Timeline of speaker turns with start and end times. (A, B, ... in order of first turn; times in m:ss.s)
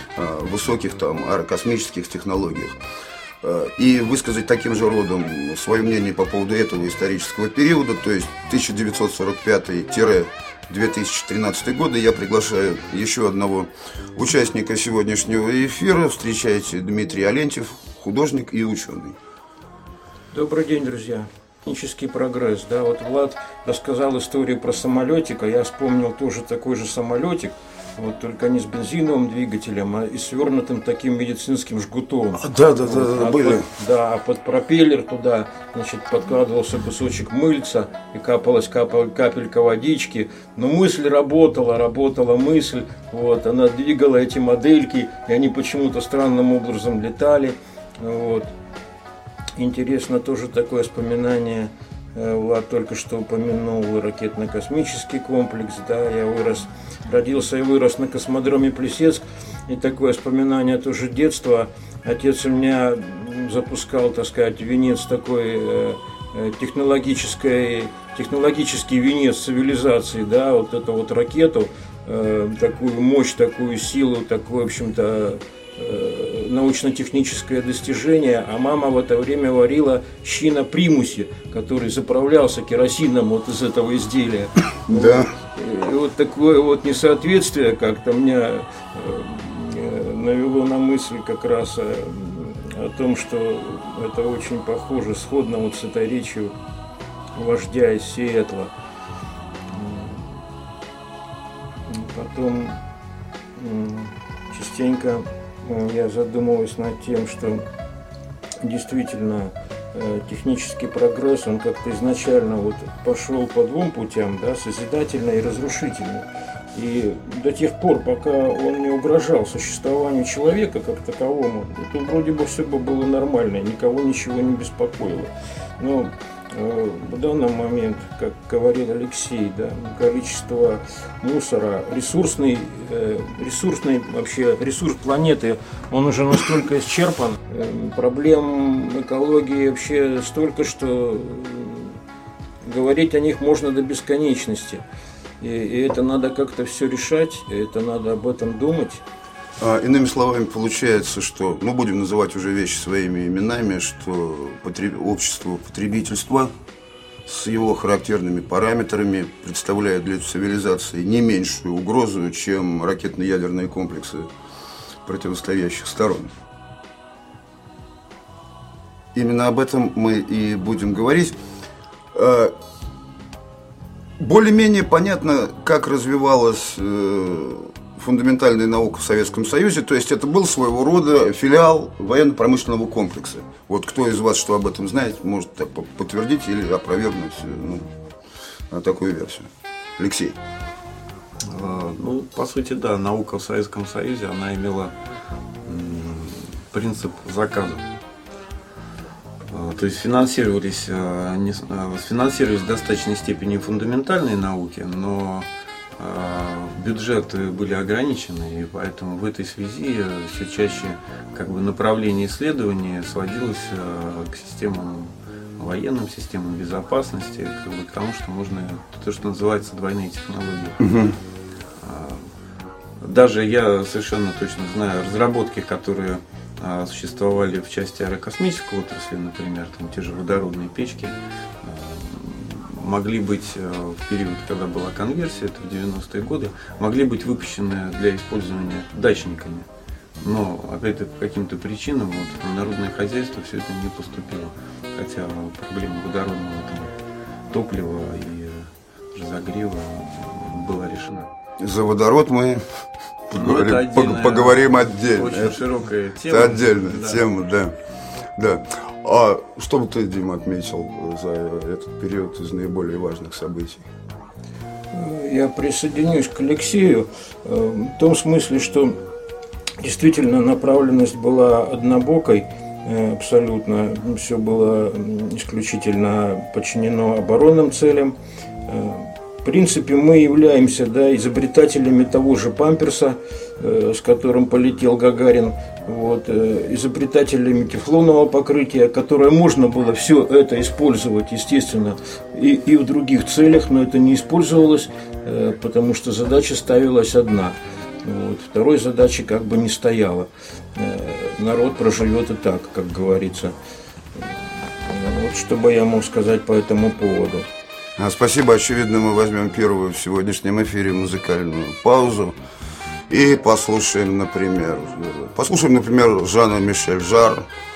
0:00.2-0:02.8 A
0:03.4-0:19.2 A
0:20.3-0:48.5 B
0:32.4-0:33.7 A
0:49.6-1:36.5 B
1:24.9-1:25.3 A
1:37.3-1:38.7 B
1:39.7-1:40.4 B
1:41.9-1:42.8 B
1:43.6-1:47.6 B
1:48.6-2:22.0 B
2:22.6-2:24.8 B
2:25.4-2:29.0 B
2:29.6-2:36.5 A
2:37.3-2:44.3 A
2:45.0-2:46.3 A
2:49.1-2:51.4 A
2:52.1-2:52.6 A
2:54.2-3:07.9 A
3:08.7-3:10.4 A
3:11.4-3:14.9 C
3:15.6-3:17.9 C
3:19.5-3:40.8 C
3:40.8-3:41.2 A
3:41.8-3:42.2 C
3:43.0-3:59.7 C
4:00.2-4:06.9 C
4:07.5-4:11.3 C
4:11.6-4:12.6 A
4:13.3-4:15.6 A
4:13.3-4:17.3 C
4:16.3-4:17.8 A
4:18.4-4:23.9 A
4:24.9-4:29.0 B
4:29.8-4:38.2 B
4:38.7-5:03.6 B
5:04.2-5:07.5 B
5:08.0-5:12.4 A
5:13.1-5:17.5 A